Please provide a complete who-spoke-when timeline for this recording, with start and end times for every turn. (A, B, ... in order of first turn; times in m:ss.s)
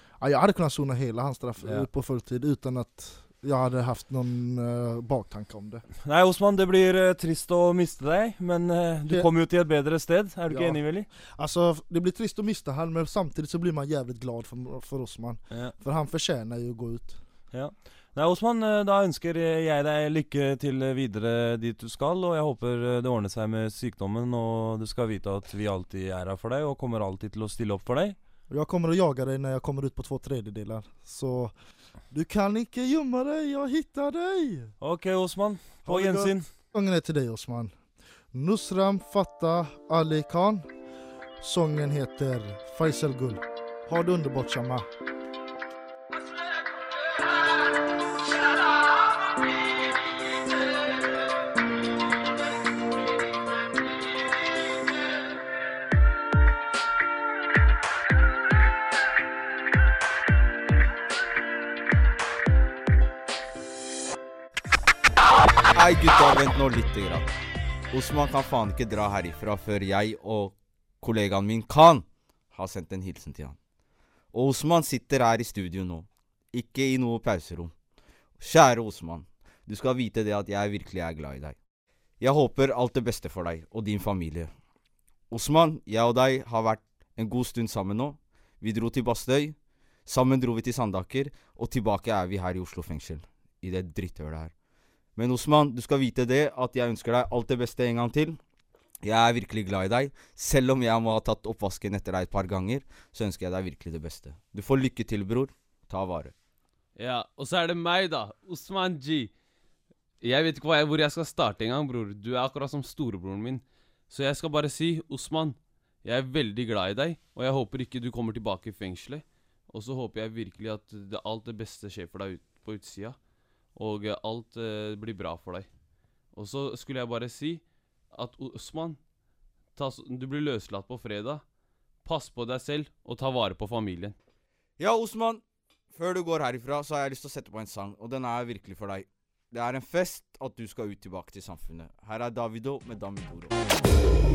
0:00.2-0:05.8 A
0:01.6-0:01.9 B
0:06.0-0:11.1 B
0:10.5-0:17.2 A
0:15.5-0:15.7 B
0:17.5-0:28.2 B
0:28.5-0:31.5 A
0:32.1-0:34.7 A
0:34.8-0:36.5 B
0:35.8-0:37.7 A
0:38.3-0:40.6 A
0:41.4-0:44.9 A
1:05.7-1:07.4 C
1:07.9-1:13.6 C
1:14.3-1:17.7 C
1:18.4-1:21.6 C
1:22.2-1:24.5 C
1:25.3-1:34.5 C
1:35.1-1:38.4 C
1:39.0-1:46.3 C
1:47.0-1:49.3 D
1:50.2-2:03.2 D
2:03.7-2:05.7 D
2:06.3-2:09.0 D
2:09.8-2:11.4 D
2:12.0-2:14.1 D
2:14.8-2:23.6 C